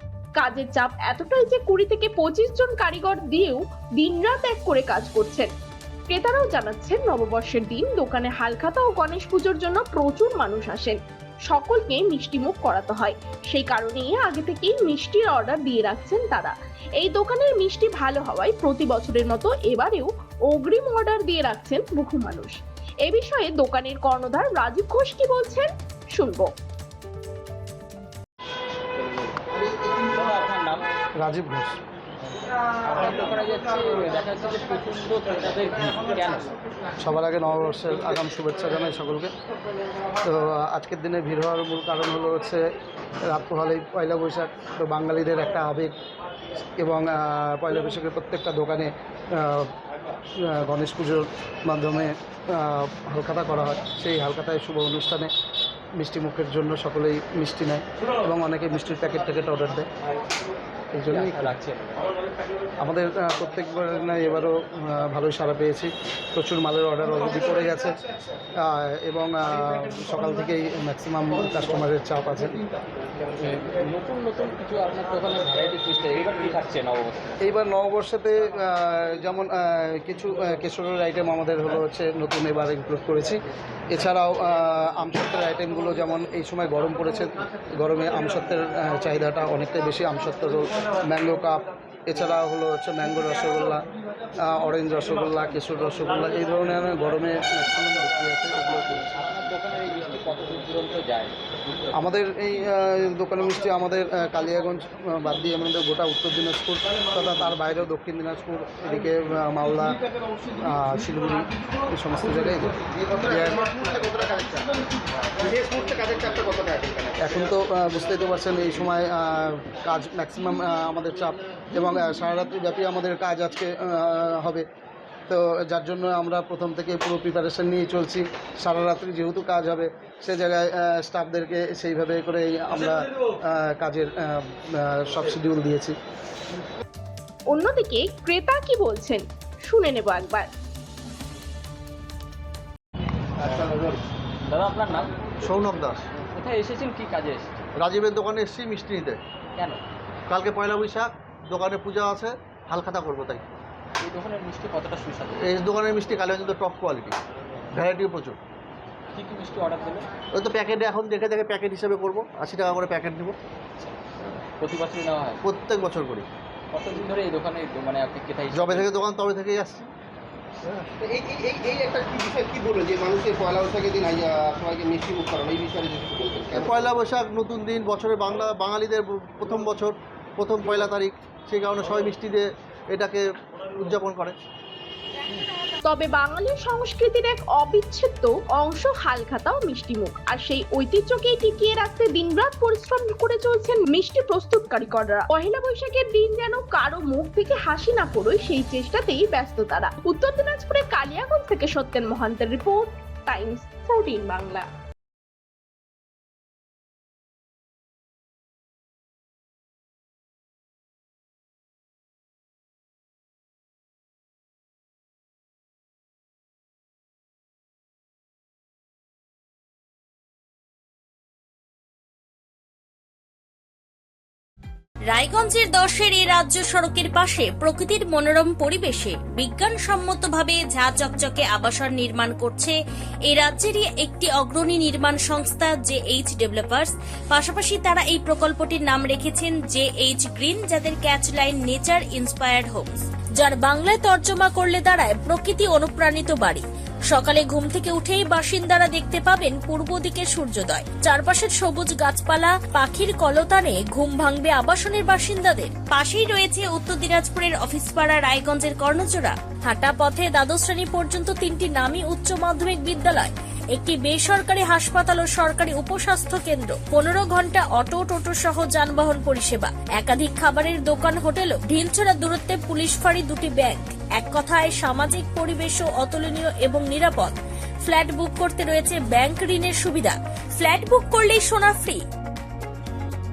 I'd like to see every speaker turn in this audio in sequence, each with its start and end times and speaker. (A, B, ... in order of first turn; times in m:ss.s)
0:00.4-0:05.5 A
0:06.1-0:26.5 A
0:30.0-0:30.9 B
0:31.2-0:31.8 C
0:32.9-0:36.6 B
0:37.0-0:39.3 C
0:40.2-0:42.7 C
0:43.2-0:46.0 C
0:46.8-0:49.7 C
0:50.4-0:55.3 C
0:56.0-0:59.9 C
1:01.0-1:01.6 C
1:01.1-1:02.1 B
1:02.8-1:08.0 C
1:08.6-1:12.6 C
1:13.4-1:17.4 B
1:17.4-1:23.4 C
1:23.9-1:33.8 C
1:34.4-1:39.1 C
1:39.2-1:41.4 B
1:41.9-1:50.0 C
1:50.6-1:53.7 C
1:53.3-1:54.8 D
1:55.4-1:57.2 D
1:57.2-2:04.7 C
2:05.3-2:16.0 C
2:17.5-2:20.5 A
2:24.5-2:25.1 B
2:25.4-2:26.0 E
2:26.2-2:27.6 B
2:27.8-2:29.2 E
2:30.3-2:33.5 E
2:34.0-2:35.5 B
2:35.4-2:37.2 E
2:37.8-2:38.4 E
2:39.2-2:40.1 B
2:40.3-2:43.4 E
2:44.6-2:45.4 B
2:45.4-2:46.3 E
2:46.7-2:49.0 B
2:48.5-2:49.9 E
2:50.9-2:56.8 D
2:56.5-3:03.2 E
3:03.8-3:04.4 E
3:05.8-3:24.7 A
3:45.1-3:52.8 F
3:53.3-4:42.0 F